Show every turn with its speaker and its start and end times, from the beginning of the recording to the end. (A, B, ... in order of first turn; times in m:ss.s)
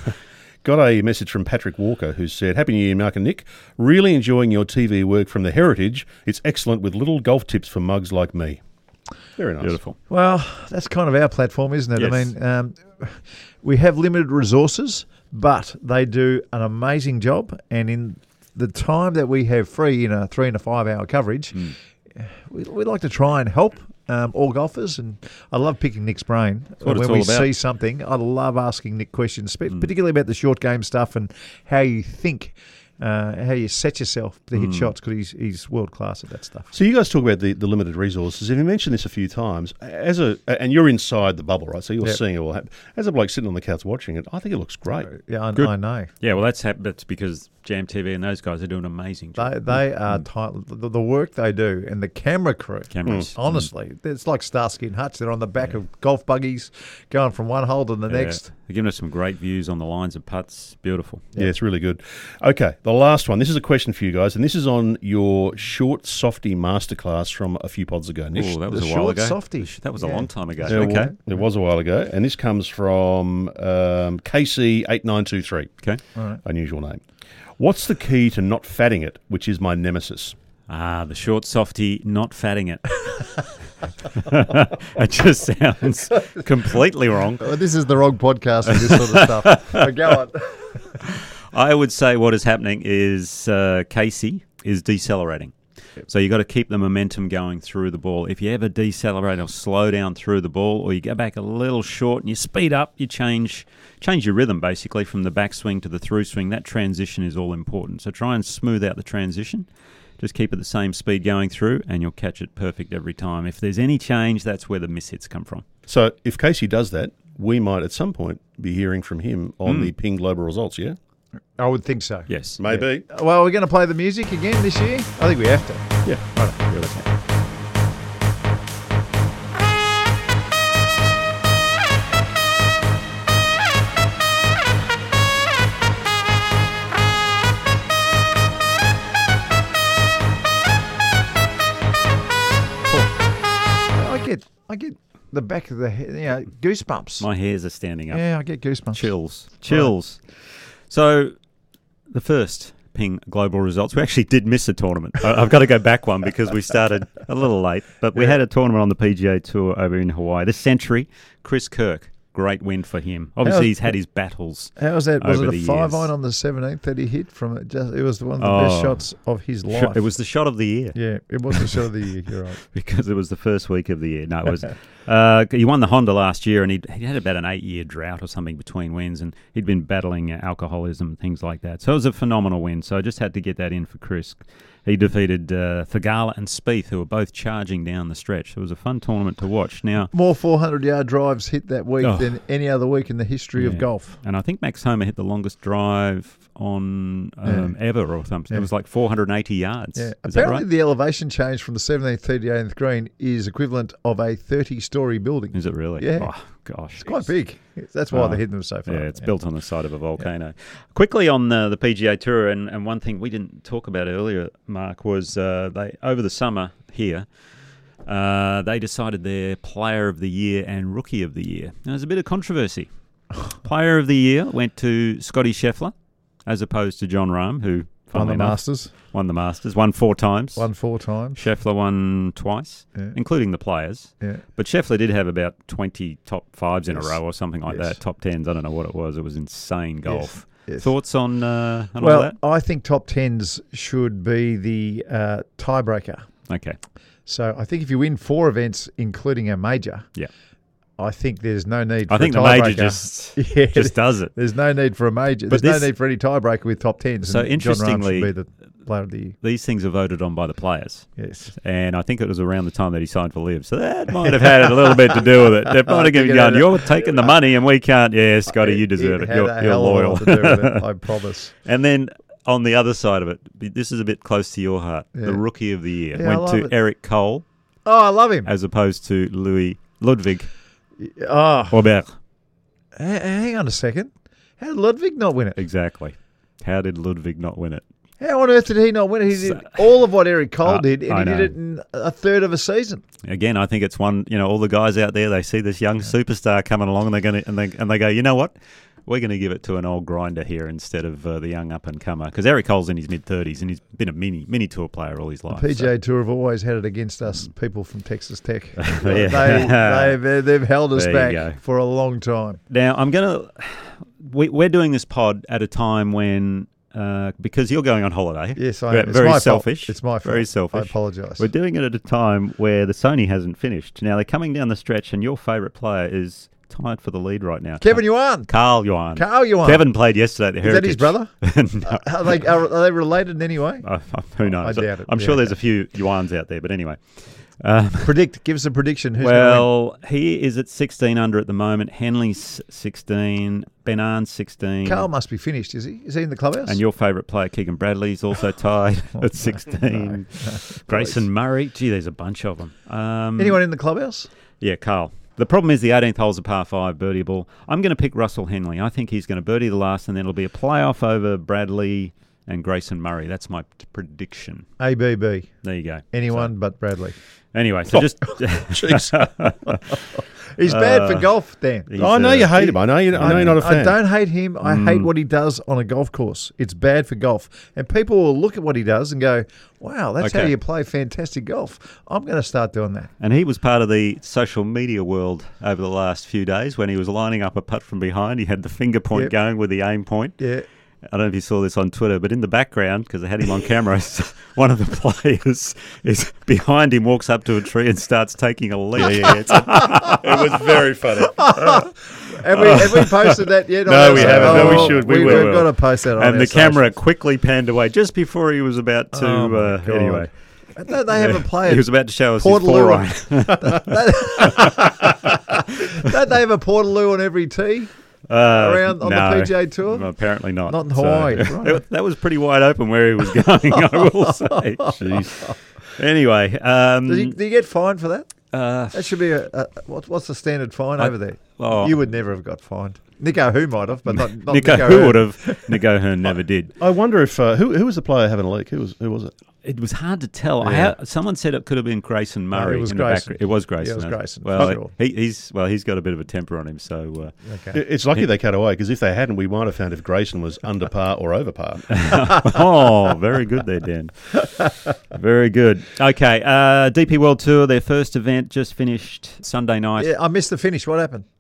0:00.6-0:08.6 A
0:09.4-0:09.8 A
0:09.6-0:10.0 B
0:10.1-0:36.7 C
0:12.0-0:12.3 B
0:26.8-0:27.5 B
0:34.6-0:34.9 B
0:36.7-0:45.1 A
0:45.1-0:46.1 C
0:45.6-0:50.2 B
0:49.4-0:58.4 C
0:52.9-0:53.7 B
0:58.1-1:01.3 B
1:01.4-1:08.5 A
1:08.3-1:11.1 B
1:08.7-1:11.2 C
1:10.7-1:15.8 A
1:16.2-1:16.4 C
1:16.4-1:17.0 A
1:17.6-1:20.4 A
1:20.7-1:23.5 B
1:24.1-1:27.5 B
1:27.4-1:30.8 C
1:28.7-1:29.9 B
1:31.1-1:49.7 B
1:50.2-1:55.6 B
1:55.9-2:01.0 A
1:59.6-1:59.9 B
2:01.6-2:07.0 C
2:02.3-2:02.6 B
2:02.6-2:03.0 A
2:06.0-2:07.1 B
2:23.9-2:27.3 C
2:27.2-2:28.3 B
2:28.1-2:29.1 C
2:28.9-2:30.3 B
2:30.9-2:31.3 B
2:32.1-2:46.1 B
2:43.4-2:43.9 C
2:44.8-2:50.0 C
2:48.4-2:49.1 B
2:49.7-2:51.0 B
2:51.0-2:52.6 C
2:52.7-3:10.1 B
3:10.1-3:14.2 C
3:12.0-3:12.4 B
3:13.6-3:20.7 B
3:17.4-3:18.0 C
3:20.0-3:26.3 C
3:25.5-3:27.3 B
3:27.0-3:29.3 C
3:28.1-3:37.3 B
3:38.1-3:42.9 B
3:43.5-3:45.9 B
3:46.5-3:50.7 B
3:48.1-3:48.9 C
3:50.6-3:51.4 C
3:51.4-4:02.4 B
3:57.7-3:58.0 C
4:00.1-4:00.9 C
4:02.0-4:06.3 C
4:06.5-4:06.8 B
4:07.3-4:10.1 C
4:11.0-4:19.4 C
4:12.1-4:14.3 B
4:15.5-4:15.9 B
4:17.2-4:18.3 B
4:19.4-4:30.9 B
4:21.2-4:21.6 C
4:24.3-4:27.3 C
4:28.5-4:31.5 C
4:31.6-4:37.4 B
4:36.1-4:36.7 C
4:37.9-4:38.5 C
4:38.4-4:40.5 B
4:41.0-4:41.8 C
4:41.7-4:42.1 B
4:43.0-4:45.6 C
4:45.6-4:47.8 B
4:48.2-4:53.0 C
4:49.4-4:49.8 B
4:50.6-4:51.5 B
4:53.2-4:58.5 B
4:59.1-5:05.9 B
5:05.5-5:12.6 C
5:08.8-5:10.2 B
5:10.9-5:11.6 B
5:12.7-5:32.4 B
5:18.6-5:21.5 C
5:27.8-5:28.5 C
5:29.2-5:29.9 C
5:30.6-5:33.9 C
5:33.8-5:38.2 B
5:34.5-5:35.6 C
5:38.0-5:39.7 C
5:39.2-5:45.1 B
5:44.8-5:46.8 C
5:46.7-5:53.6 B
5:49.9-5:51.2 C
5:53.4-5:54.3 C
5:54.6-6:04.7 B
6:04.8-6:07.2 C
6:05.6-6:06.5 B
6:07.5-6:10.0 B
6:08.7-6:09.3 A
6:09.9-6:11.9 C
6:10.6-6:11.3 B
6:11.9-6:13.6 B
6:12.0-6:14.0 A
6:12.6-6:23.1 C
6:14.6-6:15.1 B
6:20.2-6:20.5 B
6:23.2-6:30.4 B
6:30.4-6:30.7 C
6:31.0-6:40.8 B
6:39.0-6:41.9 A
6:41.3-6:47.0 C
6:42.6-6:43.4 B
6:43.9-6:45.6 A
6:44.0-6:50.3 B
6:49.1-7:00.1 C
6:51.1-6:55.3 B
6:58.3-7:07.4 B
7:00.7-7:01.8 C
7:04.3-7:05.6 C
7:05.0-7:05.3 A
7:07.1-7:08.4 C
7:08.5-7:09.1 B
7:08.9-7:15.8 C
7:11.0-7:12.0 B
7:14.1-7:16.8 B
7:16.8-7:19.3 A
7:19.6-7:27.4 B
7:20.6-7:20.9 C
7:22.5-7:24.9 C
7:27.5-7:27.8 C
7:27.7-7:32.0 A
7:31.9-7:40.1 B
7:40.0-7:41.3 C